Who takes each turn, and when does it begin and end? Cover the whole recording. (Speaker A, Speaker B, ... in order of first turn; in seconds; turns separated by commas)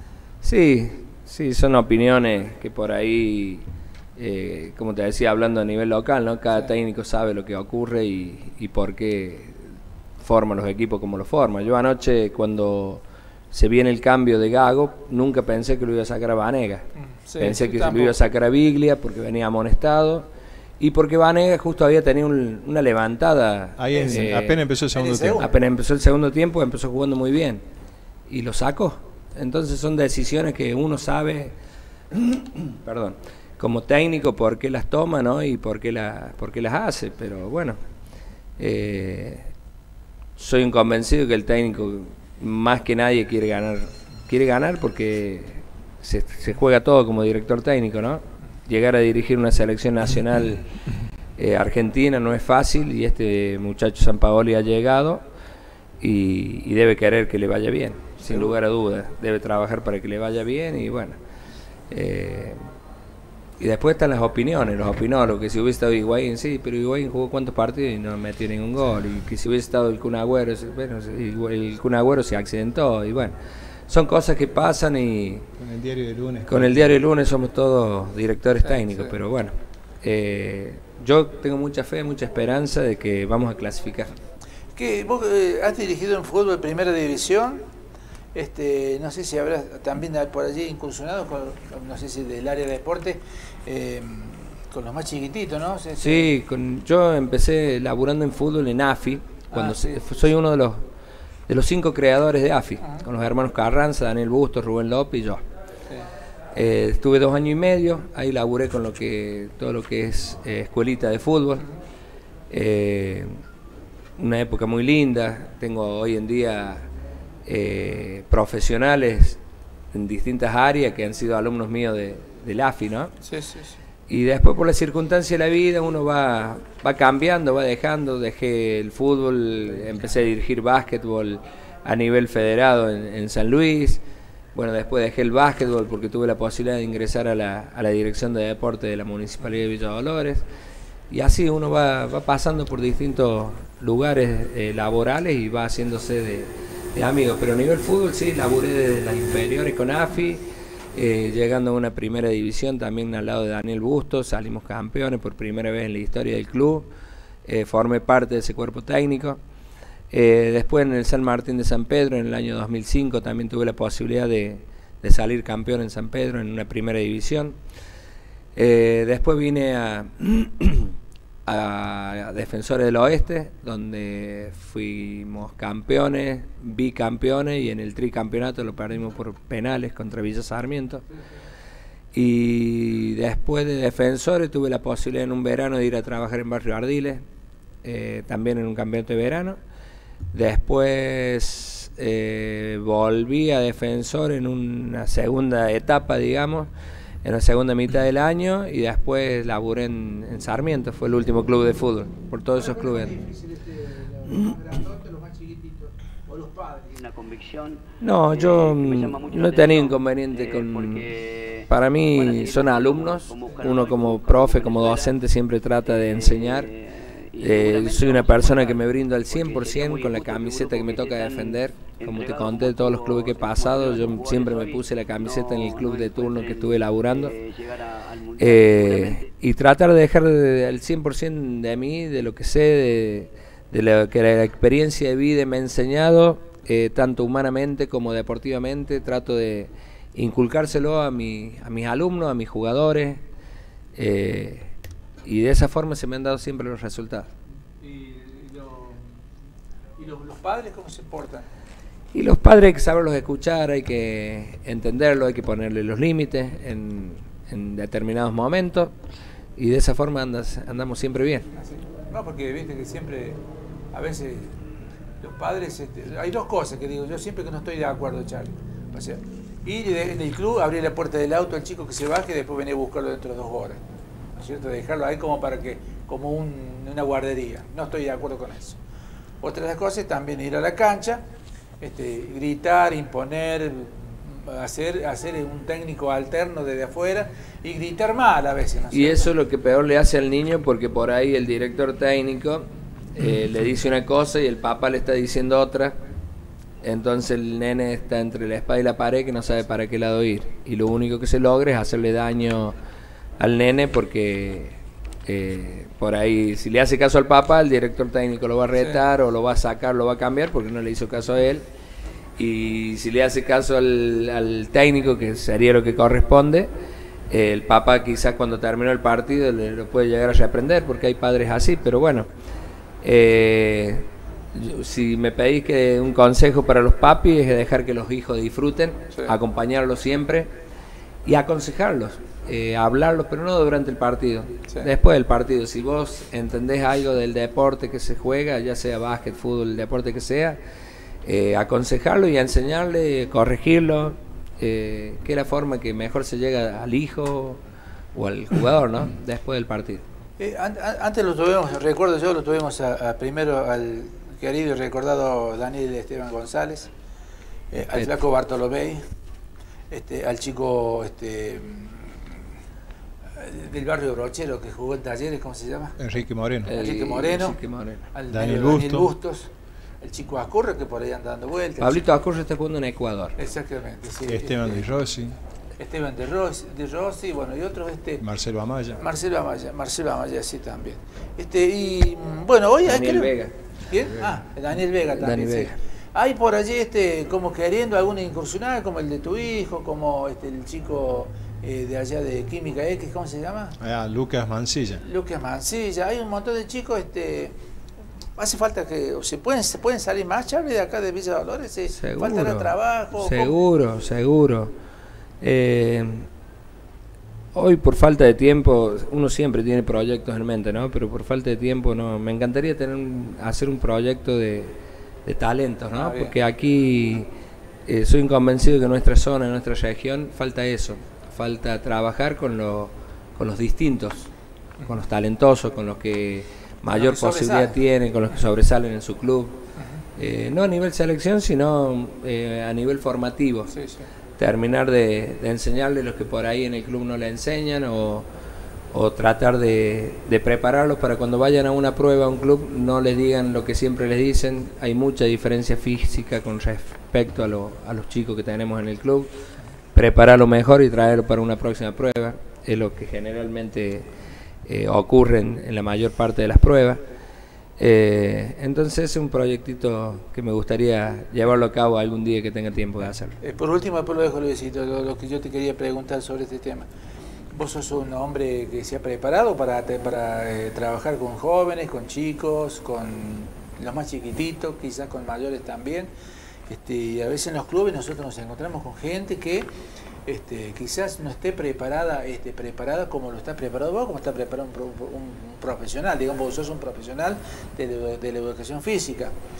Speaker A: 0.4-9.6, Speaker A: 10.2-16.8, Speaker B: 17.0-18.1, Speaker A: 17.4-20.3, Speaker A: 20.8-24.6, Speaker C: 23.8-25.4, Speaker B: 23.9-24.3, Speaker B: 24.9-25.5, Speaker A: 25.4-27.6, Speaker A: 28.3-31.5, Speaker A: 32.8-37.8, Speaker A: 38.6-39.5, Speaker A: 40.4-50.7, Speaker A: 51.4-55.2, Speaker A: 56.0-61.2, Speaker B: 58.3-58.5, Speaker A: 61.9-62.6, Speaker A: 63.6-73.3, Speaker A: 73.9-75.5, Speaker C: 75.6-76.9, Speaker A: 76.5-84.1, Speaker B: 78.7-79.1, Speaker B: 84.8-87.6, Speaker B: 88.3-96.3, Speaker A: 96.0-100.8, Speaker B: 99.5-100.3, Speaker A: 101.5-105.4, Speaker A: 106.5-111.7, Speaker A: 112.5-113.4, Speaker A: 114.2-116.9, Speaker A: 117.5-119.4, Speaker A: 119.9-123.1, Speaker B: 123.2-123.8, Speaker A: 124.1-134.0, Speaker A: 134.6-140.4, Speaker A: 141.1-156.9, Speaker A: 157.4-159.4, Speaker A: 160.1-167.6, Speaker A: 168.6-170.9, Speaker A: 171.5-181.0, Speaker A: 182.1-187.2, Speaker A: 187.8-189.6, Speaker A: 190.3-196.7, Speaker A: 197.2-203.1, Speaker B: 202.6-206.9, Speaker D: 207.0-215.2, Speaker A: 208.0-211.1, Speaker A: 211.7-216.7, Speaker D: 215.8-229.3, Speaker A: 217.4-227.3, Speaker A: 228.4-243.2, Speaker A: 243.9-244.7, Speaker A: 245.2-247.3, Speaker B: 247.8-249.0, Speaker B: 250.0-251.5, Speaker A: 252.1-258.9, Speaker A: 259.6-261.5, Speaker B: 261.6-263.4, Speaker B: 263.9-264.5, Speaker B: 265.2-273.8, Speaker B: 274.4-278.8, Speaker B: 279.4-281.2, Speaker B: 281.8-289.3, Speaker A: 288.9-296.0, Speaker A: 296.8-302.8, Speaker A: 303.4-311.7, Speaker A: 312.4-316.7, Speaker A: 317.3-322.3, Speaker A: 323.0-330.5, Speaker A: 331.2-340.6, Speaker A: 341.2-347.6, Speaker A: 348.1-350.0, Speaker B: 350.4-356.9, Speaker B: 357.7-359.0, Speaker B: 359.9-362.3, Speaker B: 363.4-366.1, Speaker C: 366.0-366.7, Speaker B: 366.6-367.6, Speaker A: 366.7-368.1, Speaker B: 368.1-369.5, Speaker C: 368.3-369.1, Speaker B: 370.0-372.1, Speaker A: 371.8-373.4, Speaker B: 373.4-374.9, Speaker C: 374.3-375.4, Speaker B: 375.8-378.2, Speaker C: 378.2-379.0, Speaker B: 379.0-383.4, Speaker A: 382.8-383.5, Speaker B: 383.9-393.8, Speaker A: 385.1-385.8, Speaker C: 393.8-395.0, Speaker B: 395.0-397.6, Speaker B: 398.4-403.6, Speaker A: 401.9-404.7, Speaker A: 405.4-406.3, Speaker A: 407.5-417.3, Speaker B: 416.0-416.3, Speaker A: 417.9-424.3, Speaker A: 424.9-429.6, Speaker B: 426.9-427.8, Speaker A: 430.2-433.7, Speaker B: 433.7-434.1, Speaker A: 434.4-438.3, Speaker A: 438.9-449.3, Speaker A: 449.9-454.1, Speaker A: 454.6-457.0, Speaker A: 457.8-463.4, Speaker B: 463.4-466.9, Speaker B: 467.5-476.1, Speaker B: 476.7-479.7, Speaker B: 480.3-489.3